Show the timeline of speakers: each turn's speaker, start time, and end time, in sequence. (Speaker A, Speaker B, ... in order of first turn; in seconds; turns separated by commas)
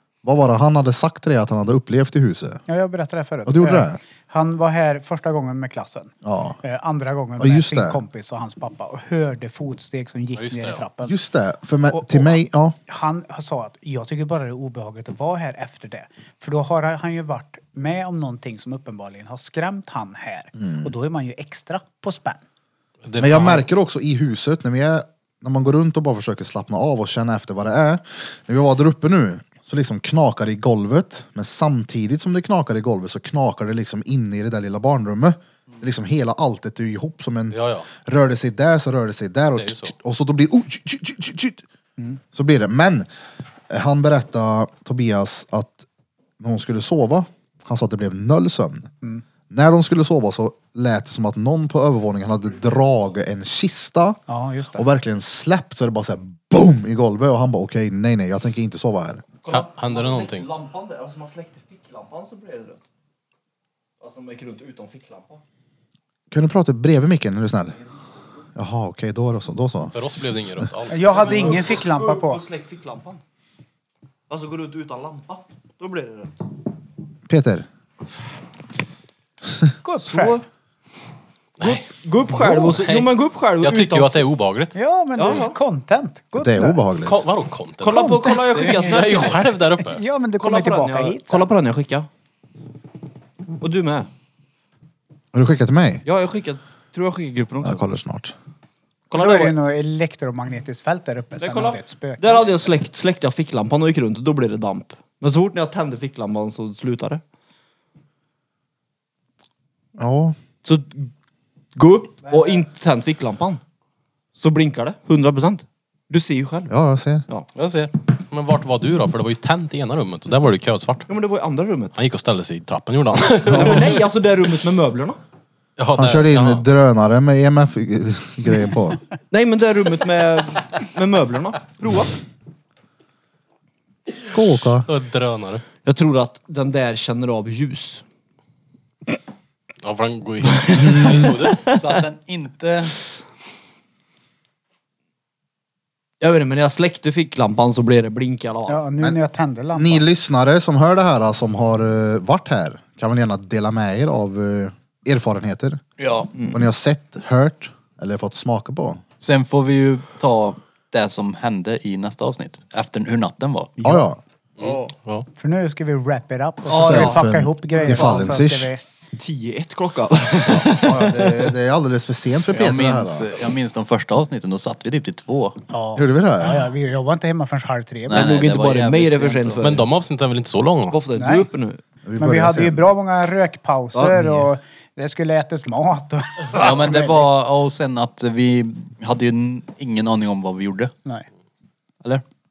Speaker A: 0.2-2.6, Speaker B: 2.7-11.1, Speaker A: 3.5-4.0, Speaker A: 6.2-6.6, Speaker A: 7.4-8.0, Speaker C: 10.3-10.8, Speaker A: 11.0-12.8, Speaker B: 11.9-22.4, Speaker A: 20.6-20.9, Speaker C: 23.1-23.6, Speaker A: 23.2-41.6, Speaker C: 37.5-37.9, Speaker C: 39.5-39.9, Speaker A: 42.3-43.1, Speaker A: 43.7-45.9, Speaker A: 46.4-48.9, Speaker A: 49.5-54.2, Speaker B: 54.3-54.9, Speaker A: 54.7-59.2, Speaker D: 59.4-62.8, Speaker C: 59.5-60.5, Speaker D: 64.0-65.4, Speaker A: 66.3-67.8, Speaker A: 68.5-69.9, Speaker C: 69.9-71.6, Speaker B: 70.9-72.4, Speaker D: 71.1-73.2, Speaker D: 74.3-76.4, Speaker A: 77.3-77.7, Speaker B: 79.8-80.4, Speaker D: 80.0-80.4, Speaker C: 81.6-81.9, Speaker D: 81.6-84.2, Speaker C: 83.6-84.7, Speaker B: 84.7-86.8, Speaker D: 85.2-85.6, Speaker A: 86.3-87.2, Speaker C: 87.0-88.0, Speaker D: 87.8-89.4, Speaker B: 87.9-89.2, Speaker C: 88.7-90.0, Speaker B: 89.8-91.5, Speaker D: 90.4-92.1, Speaker D: 93.6-94.1, Speaker A: 95.3-96.0, Speaker D: 96.0-97.8, Speaker A: 97.6-98.3, Speaker D: 99.1-99.5, Speaker B: 99.2-102.4, Speaker D: 101.4-107.2, Speaker A: 110.0-110.3, Speaker D: 110.6-111.1, Speaker D: 111.8-113.6, Speaker D: 114.4-116.7, Speaker A: 116.7-117.3, Speaker E: 117.5-117.9, Speaker C: 118.3-121.1, Speaker D: 121.1-122.0, Speaker C: 122.0-124.0, Speaker D: 123.5-125.2, Speaker A: 123.5-123.8, Speaker C: 125.8-126.6, Speaker A: 125.9-129.0, Speaker D: 129.3-132.1, Speaker A: 134.3-134.9, Speaker C: 134.8-135.6, Speaker D: 135.8-138.0, Speaker C: 139.8-141.6, Speaker D: 140.5-141.8, Speaker E: 141.6-142.9, Speaker D: 146.2-148.8, Speaker B: 148.7-150.1, Speaker A: 149.7-155.8, Speaker E: 156.0-156.3, Speaker D: 156.3-156.6, Speaker A: 156.5-159.0, Speaker E: 159.2-163.9, Speaker A: 163.8-164.2, Speaker C: 164.6-165.3, Speaker B: 165.4-168.8, Speaker D: 166.7-168.4, Speaker A: 166.7-168.7, Speaker D: 169.1-171.5, Speaker A: 170.5-173.3, Speaker E: 172.5-175.6, Speaker B: 175.7-178.3, Speaker A: 175.9-176.7, Speaker E: 178.1-179.6, Speaker D: 178.1-179.8, Speaker C: 179.6-181.0, Speaker D: 180.9-181.8, Speaker B: 181.2-181.5, Speaker A: 182.1-182.8, Speaker B: 182.2-187.2, Speaker A: 184.1-184.5, Speaker E: 186.5-190.9